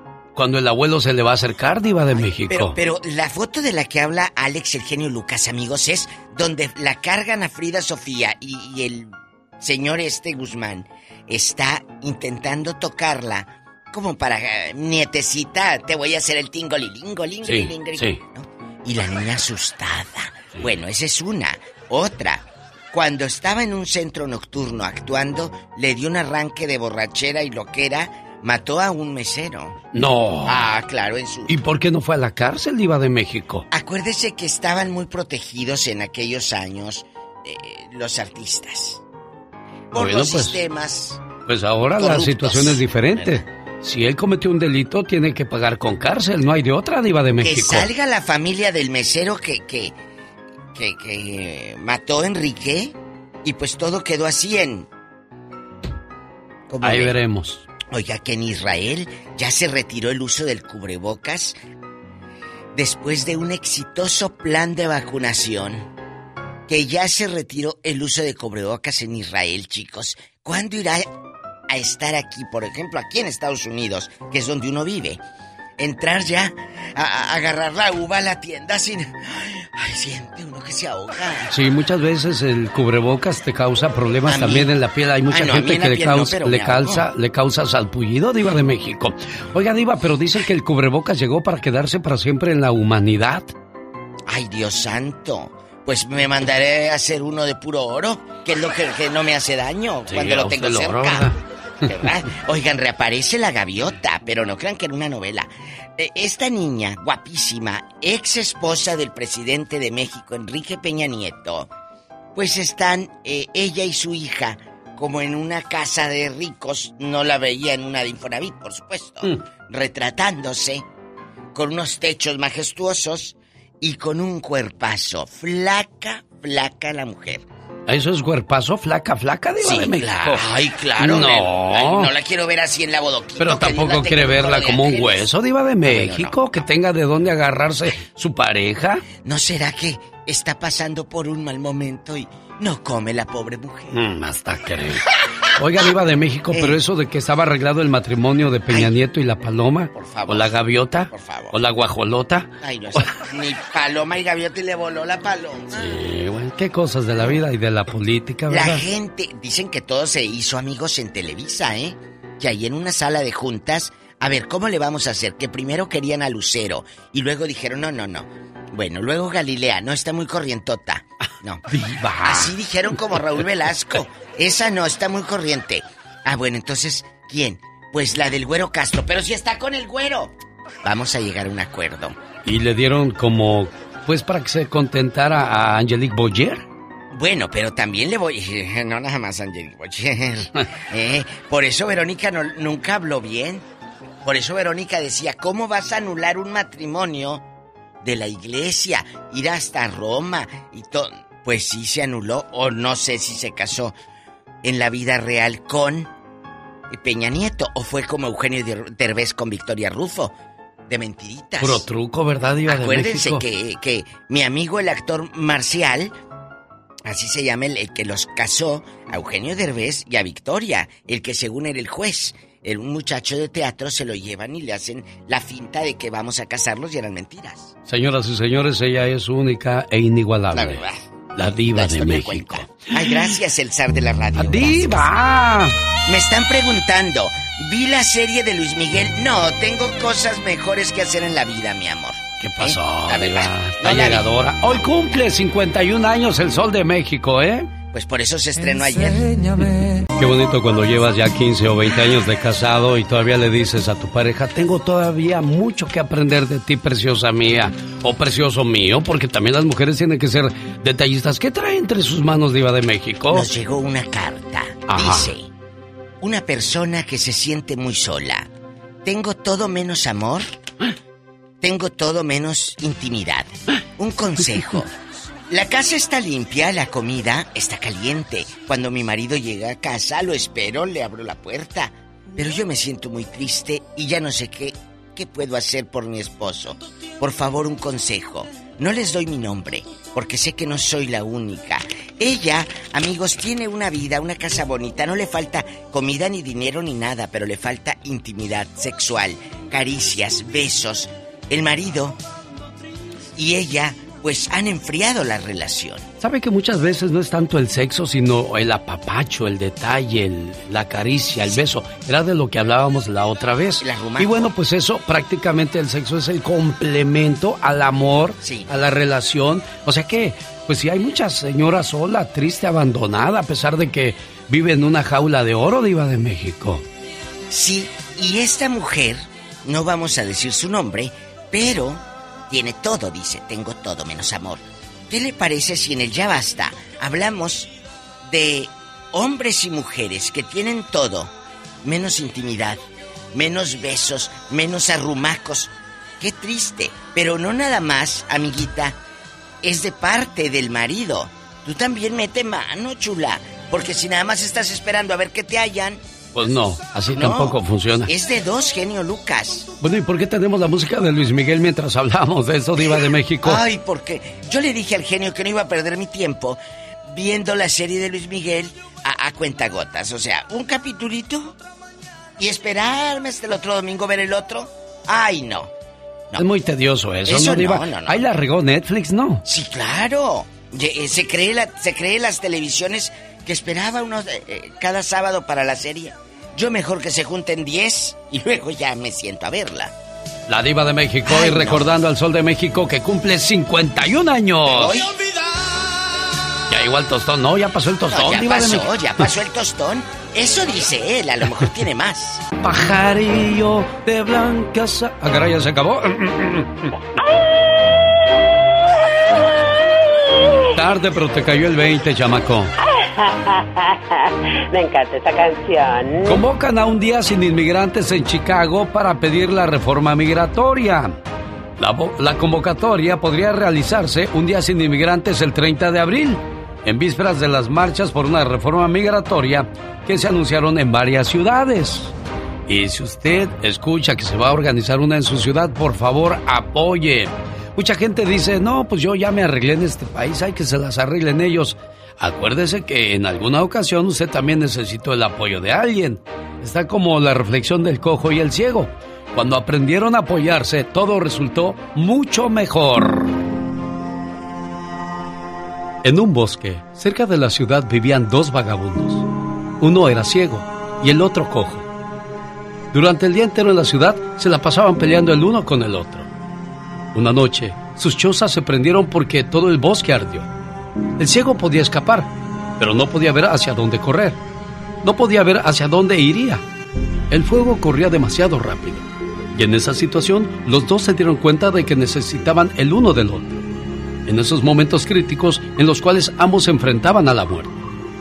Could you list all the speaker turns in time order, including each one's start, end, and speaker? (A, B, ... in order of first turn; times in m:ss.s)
0:00.4-0:02.8 A
0:02.2-0:29.8 B
0:17.4-0:18.2 A
0:29.9-0:30.6 A
0:30.4-0:31.5 B
0:31.5-0:33.7 A
0:33.7-0:39.0 B
0:39.9-0:41.2 B
0:40.0-0:40.6 A
0:41.5-0:47.9 A
0:42.0-0:43.4 B
0:47.4-0:50.0 B
0:50.7-0:54.9 B
0:56.7-0:57.1 B
0:56.8-0:57.6 A
0:57.9-1:01.6 B
1:02.7-1:05.9 B
1:06.7-1:11.1 B
1:11.7-1:15.2 B
1:15.8-1:21.5 B
1:21.5-1:33.5 A
1:24.3-1:24.7 B
1:25.3-1:27.0 B
1:34.3-1:41.3 B
1:40.1-1:41.4 A
1:41.8-1:51.7 B
1:52.3-2:00.8 B
2:01.5-2:07.4 B
2:07.9-2:10.4 A
2:09.6-2:15.3 B
2:11.0-2:12.1 A
2:13.4-2:19.0 A
2:15.8-2:16.6 B
2:19.2-2:23.9 B
2:23.9-2:25.0 A
2:25.6-2:32.5 A
2:29.9-2:30.6 B
2:31.1-2:31.5 B
2:32.6-2:35.9 B
2:35.7-2:38.8 A
2:38.5-2:51.7 B
2:51.7-2:52.5 A
2:52.2-3:00.3 B
3:00.8-3:02.1 B
3:02.4-3:06.6 A
3:07.1-3:13.6 B
3:14.2-3:17.4 B
3:18.0-3:23.9 B
3:24.6-3:26.1 B
3:26.9-3:30.3 B
3:30.9-3:31.8 B
3:31.6-3:33.4 A
3:32.7-3:36.1 B
3:37.0-3:47.7 B
3:47.8-3:50.8 A
3:50.5-3:55.1 B
3:51.4-3:52.9 A
3:54.4-3:55.7 A
3:56.0-4:05.2 B
4:02.4-4:07.7 A
4:07.9-4:09.4 B
4:10.2-4:23.5 A
4:23.3-4:25.5 B
4:24.9-4:25.3 A
4:26.2-4:28.5 B
4:29.0-4:30.5 B
4:31.6-4:34.9 B
4:35.5-5:02.2 B
5:03.4-5:06.0 B
5:06.2-5:26.8 A
5:13.8-5:14.5 B
5:18.4-5:18.7 B
5:27.5-5:37.7 B
5:38.2-5:41.3 B
5:41.8-5:42.8 B
5:43.3-5:49.0 B
5:49.6-5:56.0 B
5:56.3-5:58.1 A
5:57.1-5:59.7 B
5:59.8-6:03.6 A
6:02.8-6:06.6 B
6:07.1-6:11.6 B
6:12.4-6:15.7 B
6:16.4-6:19.4 A
6:17.3-6:18.2 B
6:19.4-6:29.9 B
6:30.5-6:35.0 A
6:31.2-6:31.8 B
6:34.7-6:35.1 B
6:36.7-6:39.3 A
6:38.1-6:42.4 B
6:42.6-6:46.9 A
6:47.2-6:48.3 C
6:50.7-6:52.7 A
6:52.8-6:56.4 C
6:56.2-7:01.2 A
7:01.8-7:12.1 A
7:12.7-7:33.3 A
7:36.0-7:39.2 A
7:39.8-7:41.9 A
7:42.9-7:46.3 A
7:47.1-7:50.5 A
7:51.2-7:54.4 A
7:55.0-7:56.6 A
7:57.3-8:03.6 A
8:04.2-8:07.8 A